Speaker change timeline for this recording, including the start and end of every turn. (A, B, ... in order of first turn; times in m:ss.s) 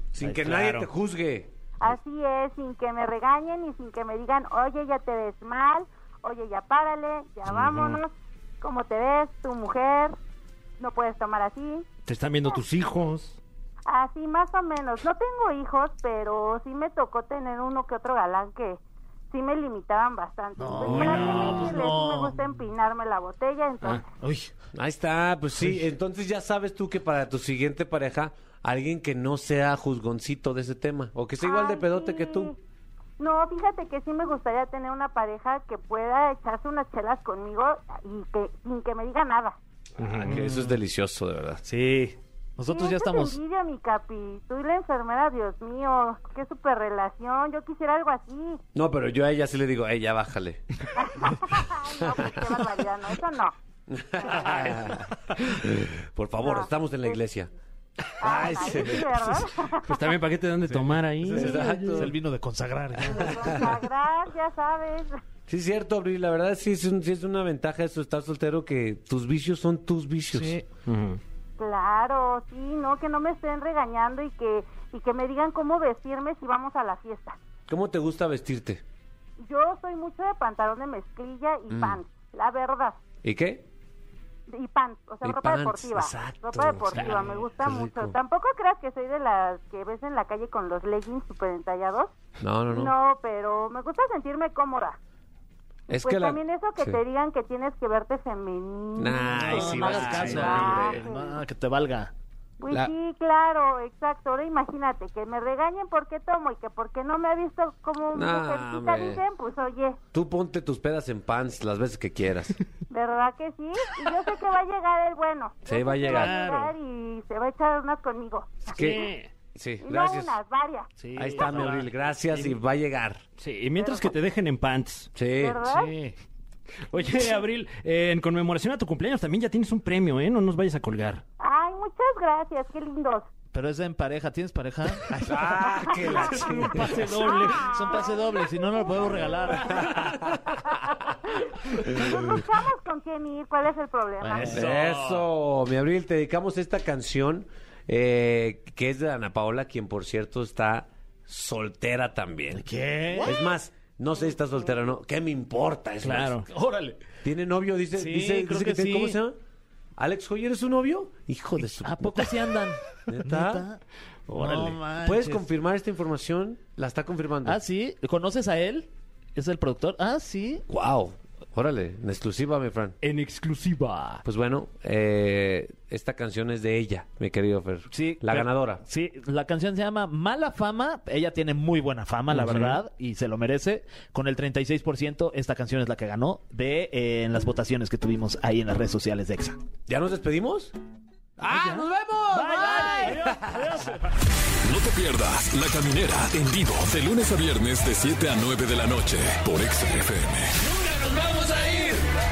0:00.1-0:01.5 A
0:00.2-0:00.9 B
0:01.8-0:10.2 C
0:07.5-0:08.0 D
0:10.8-0:11.9 C
0:12.0-0:13.4 D
0:13.9-0:18.8 C
0:19.3-0:24.0 C
0:20.6-0:22.4 B
0:20.8-0:21.6 A
0:20.9-0:21.4 D
0:24.2-0:24.5 B
0:24.7-0:32.5 A
0:31.4-0:32.6 C
0:33.2-0:39.6 C
0:40.0-0:41.6 A
0:40.0-0:40.4 D
0:40.2-0:40.8 B
0:41.6-0:43.4 B
0:42.7-0:48.6 C
0:48.7-0:51.5 A
0:51.0-0:53.5 C
0:52.2-0:52.6 A
0:53.9-0:57.5 A
0:56.4-0:57.2 C
0:58.0-0:59.5 A
0:58.2-1:00.1 C
0:59.8-1:02.1 D
1:00.7-1:03.4 B
1:01.3-1:02.1 A
1:03.0-1:05.1 C
1:03.0-1:03.7 A
1:05.5-1:10.6 A
1:10.3-1:10.6 B
1:10.8-1:11.2 D
1:11.6-1:17.4 C
1:17.7-1:18.8 A
1:19.4-1:23.0 C
1:21.7-1:22.0 A
1:23.2-1:23.6 A
1:24.5-1:32.1 C
1:25.2-1:28.2 A
1:27.0-1:27.4 B
1:32.4-1:32.9 A
1:32.7-1:35.0 C
1:35.9-1:37.0 A
1:35.9-1:41.4 C
1:39.0-1:41.0 A
1:39.3-1:42.1 B
1:42.6-1:50.0 C
1:48.1-1:49.2 A
1:50.1-1:52.6 A
1:52.9-1:59.0 C
1:55.6-1:56.4 A
1:56.0-1:56.7 D
1:58.7-1:59.3 D
1:58.7-2:00.4 A
1:59.8-2:01.5 C
2:01.0-2:02.5 B
2:01.2-2:03.2 A
2:03.4-2:05.1 D
2:03.8-2:04.1 C
2:05.1-2:05.7 A
2:05.4-2:05.9 C
2:05.6-2:06.1 B
2:06.9-2:11.2 D
2:11.4-2:13.3 C
2:13.5-2:15.2 B
2:15.1-2:17.7 D
2:15.2-2:17.2 A
2:16.6-2:19.9 B
2:17.3-2:19.6 C
2:19.7-2:20.2 D
2:19.7-2:20.4 A
2:21.8-2:24.6 C
2:24.2-2:25.2 B
2:24.5-2:25.0 D
2:24.5-2:36.4 A
2:32.5-2:33.3 B
2:36.0-2:36.5 D
2:36.5-2:37.0 B
2:37.2-2:39.4 A
2:37.9-2:39.2 B
2:40.0-2:42.5 A
2:41.8-2:43.8 B
2:43.1-2:43.7 A
2:44.3-2:44.7 D
2:44.3-2:45.4 B
2:44.7-2:47.6 A
2:47.4-2:50.6 B
2:50.7-2:53.0 A
2:53.0-2:54.2 D
2:54.2-2:58.8 A
2:57.9-3:09.6 B
3:02.3-3:02.8 D
3:09.9-3:10.7 A
3:11.4-3:13.6 A
3:11.4-3:14.1 D
3:12.8-3:13.1 B
3:14.6-3:20.6 E
3:20.8-3:21.8 D